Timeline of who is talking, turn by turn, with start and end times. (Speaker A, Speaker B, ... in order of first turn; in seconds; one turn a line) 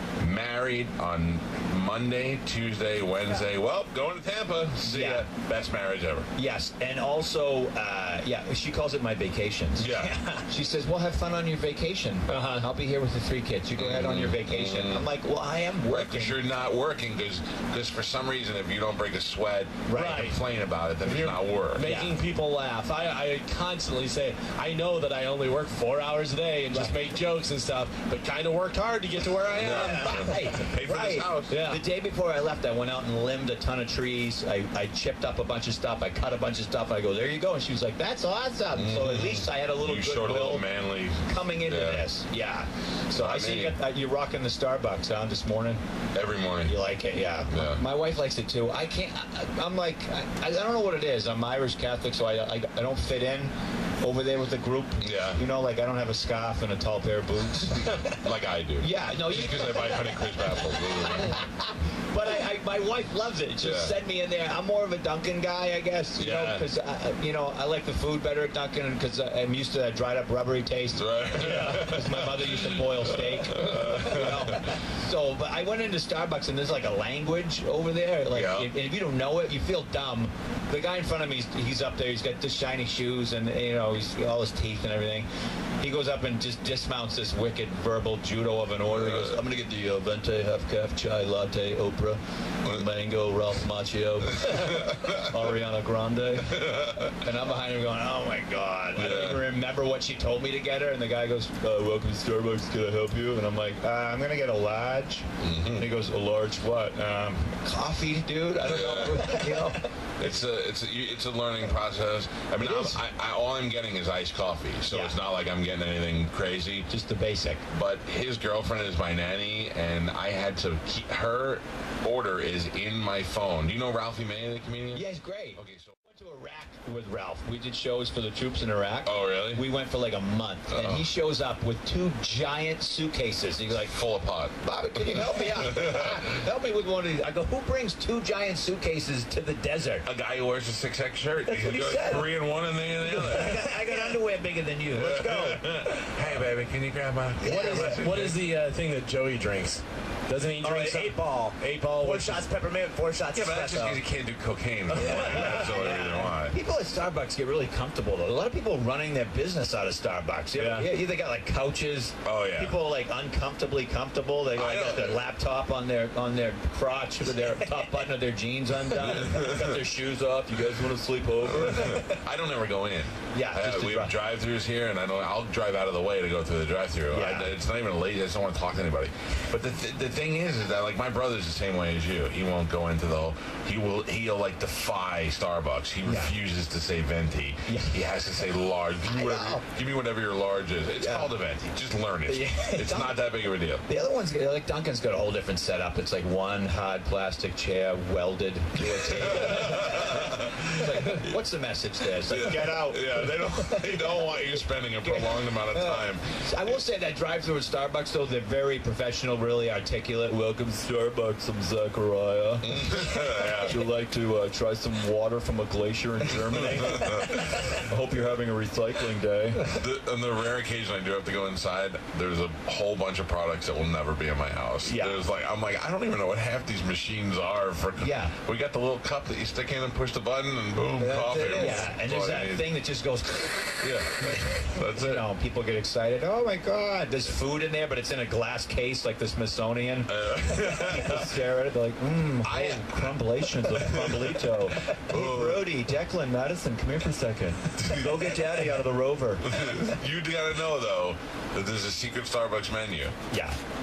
Speaker A: 0.2-6.3
Speaker B: 4.8-5.3
Speaker B: 6.3-16.4
Speaker A: 9.8-10.2
Speaker C: 12.3-12.7
Speaker A: 13.8-15.1
Speaker A: 15.9-21.9
Speaker B: 19.9-20.3
Speaker C: 19.9-20.4
Speaker C: 21.0-30.3
Speaker B: 21.8-22.1
Speaker A: 29.5-31.6
Speaker B: 29.6-40.6
Speaker C: 31.5-31.8
Speaker A: 38.7-42.0
Speaker B: 41.2-45.8
Speaker A: 43.1-43.8
Speaker A: 46.1-46.8
Speaker B: 46.6-58.2
Speaker A: 47.5-47.8
Speaker A: 55.0-55.4
Speaker A: 57.7-61.4
Speaker B: 58.8-85.3
Speaker A: 63.6-63.9
Speaker A: 66.2-66.7
Speaker A: 71.0-74.8
Speaker A: 78.3-78.7
Speaker B: 85.8-109.9
Speaker A: 88.9-89.4
Speaker A: 94.3-95.4
Speaker A: 96.4-97.1
Speaker A: 98.9-99.4
Speaker A: 105.4-105.9
Speaker A: 108.6-109.5
Speaker A: 110.2-116.9
Speaker B: 112.6-113.0
Speaker B: 114.9-115.2
Speaker B: 116.9-117.7
Speaker A: 117.7-125.9
Speaker B: 124.9-133.9
Speaker A: 129.0-129.7
Speaker A: 130.7-131.1
Speaker A: 133.7-136.4
Speaker B: 134.6-140.1
Speaker A: 140.0-143.9
Speaker B: 141.4-142.3
Speaker B: 143.0-146.1
Speaker A: 144.9-148.4
Speaker B: 147.4-148.1
Speaker C: 147.4-152.5
Speaker B: 150.6-154.0
Speaker A: 153.3-156.6
Speaker B: 154.9-172.2
Speaker C: 155.0-155.7
Speaker C: 160.6-160.9
Speaker A: 162.2-162.8
Speaker A: 164.5-165.2
Speaker A: 168.9-169.8
Speaker A: 171.4-193.8
Speaker B: 173.3-174.1
Speaker B: 177.1-177.5
Speaker B: 186.0-186.3
Speaker B: 187.7-188.5
Speaker B: 189.0-189.6
Speaker B: 191.0-191.3
Speaker B: 192.3-193.3
Speaker B: 193.8-219.8
Speaker A: 198.7-201.4
Speaker A: 202.2-206.7
Speaker A: 212.6-213.8
Speaker A: 216.5-217.8
Speaker A: 219.6-232.7
Speaker B: 224.8-225.2
Speaker B: 228.0-228.3
Speaker B: 231.0-249.8
Speaker A: 233.8-235.2
Speaker A: 240.1-241.4
Speaker A: 242.4-245.8
Speaker A: 247.7-248.7
Speaker A: 249.4-253.2
Speaker B: 253.3-253.6